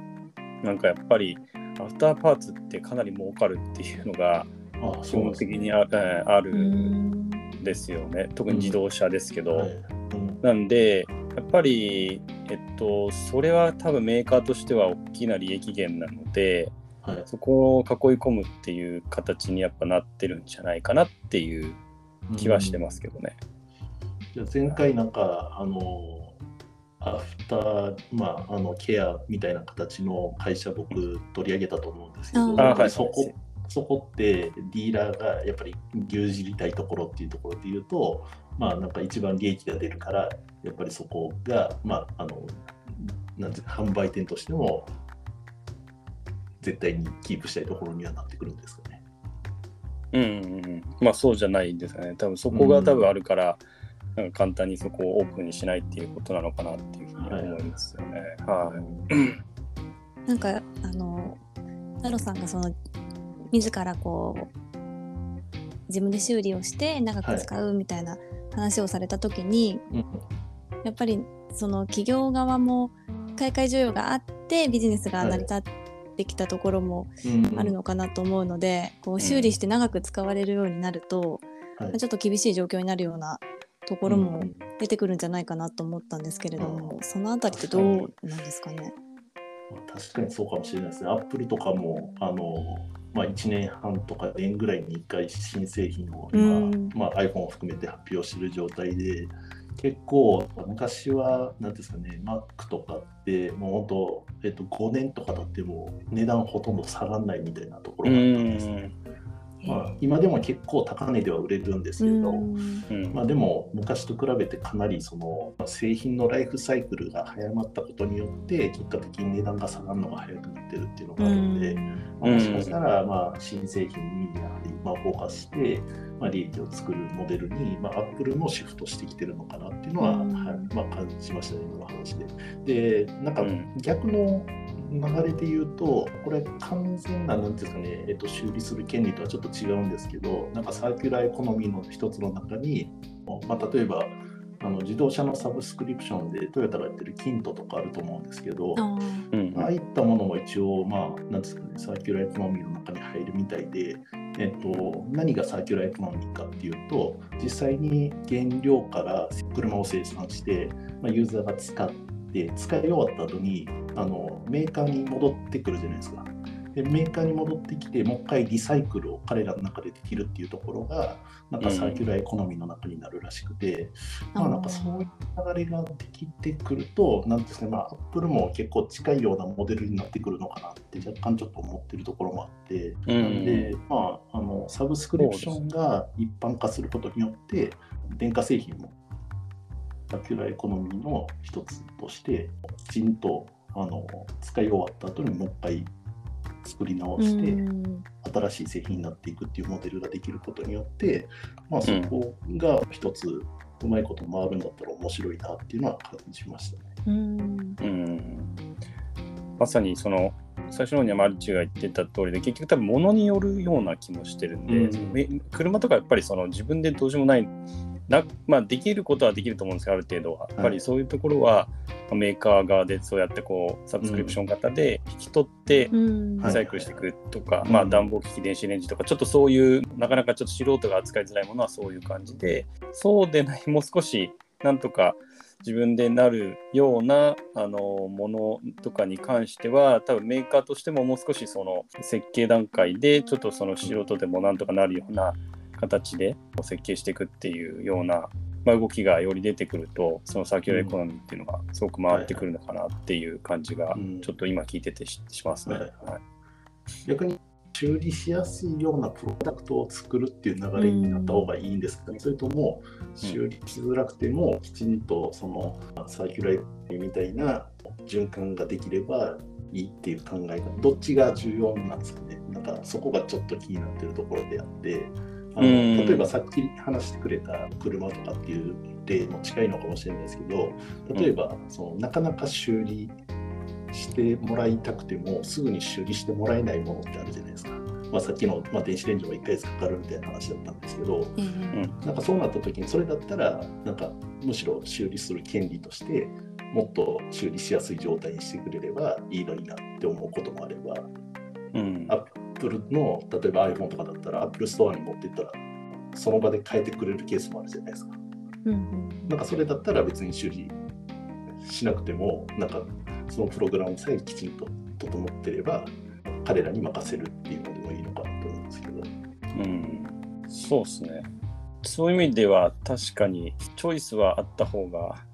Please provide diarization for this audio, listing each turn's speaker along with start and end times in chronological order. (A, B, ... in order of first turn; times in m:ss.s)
0:00.6-0:04.5 A
0:04.8-0:05.7 B
0:05.1-0:06.9 A
0:06.5-0:07.4 C
0:07.6-0:09.7 A
0:08.5-0:08.8 B
0:09.5-0:10.4 B
0:10.4-0:21.8 A
0:22.3-0:23.0 B
0:22.4-0:23.4 A
0:24.3-0:26.4 B
0:27.0-0:44.9 B
0:32.3-0:33.0 C
0:32.6-0:33.3 A
0:46.6-0:49.0 B
0:50.1-0:53.6 A
0:52.5-0:53.1 B
0:54.2-0:59.4 A
0:57.2-0:57.6 B
0:58.6-0:59.1 B
1:00.3-1:01.4 C
1:02.0-1:02.8 C
1:03.5-1:04.5 C
1:05.9-1:09.8 C
1:07.2-1:07.5 B
1:09.9-1:10.2 B
1:10.8-1:28.9 C
1:15.2-1:15.5 B
1:17.2-1:17.8 B
1:19.2-1:19.5 A
1:24.0-1:24.7 B
1:26.6-1:28.1 B
1:29.7-1:48.8 B
1:36.3-1:36.9 C
1:48.0-1:48.9 A
1:49.6-1:49.9 C
1:49.6-1:52.5 B
1:52.0-1:52.8 C
1:52.9-1:53.2 A
1:53.1-2:28.8 B
2:01.2-2:02.0 C
2:02.2-2:02.8 A
2:10.0-2:10.7 C
2:13.4-2:13.7 A
2:28.8-2:29.3 C
2:29.3-2:29.7 A
2:29.5-3:09.0 B
2:51.6-2:52.0 A
2:54.3-2:55.1 C
3:03.1-3:03.8 A
3:05.2-3:05.6 A
3:10.1-3:15.9 B
3:16.6-3:17.6 B
3:17.2-3:18.0 C
3:18.2-3:26.9 B
3:21.8-3:22.1 A
3:27.0-3:27.8 C
3:27.8-3:28.5 A
3:29.6-3:37.6 A
3:34.7-3:35.2 B
3:38.1-3:45.9 A
3:40.6-3:40.8 B
3:44.0-3:44.4 B
3:45.9-3:46.6 C
3:46.4-3:47.1 B
3:46.4-4:16.2 A
3:47.6-3:48.1 B
4:10.7-4:11.0 B
4:12.1-4:12.5 B
4:13.9-4:14.3 B
4:15.6-4:16.0 B
4:17.0-4:43.2 B
4:20.8-4:21.5 C
4:35.6-4:36.3 A
4:43.9-4:51.4 B
4:51.4-4:51.8 C
4:52.0-5:01.1 B
5:01.7-5:02.2 A
5:02.1-5:05.6 B
5:06.1-5:08.2 B
5:08.6-5:09.4 C
5:09.3-5:10.8 B
5:11.6-5:19.1 B
5:19.5-5:21.3 A
5:21.8-5:25.2 A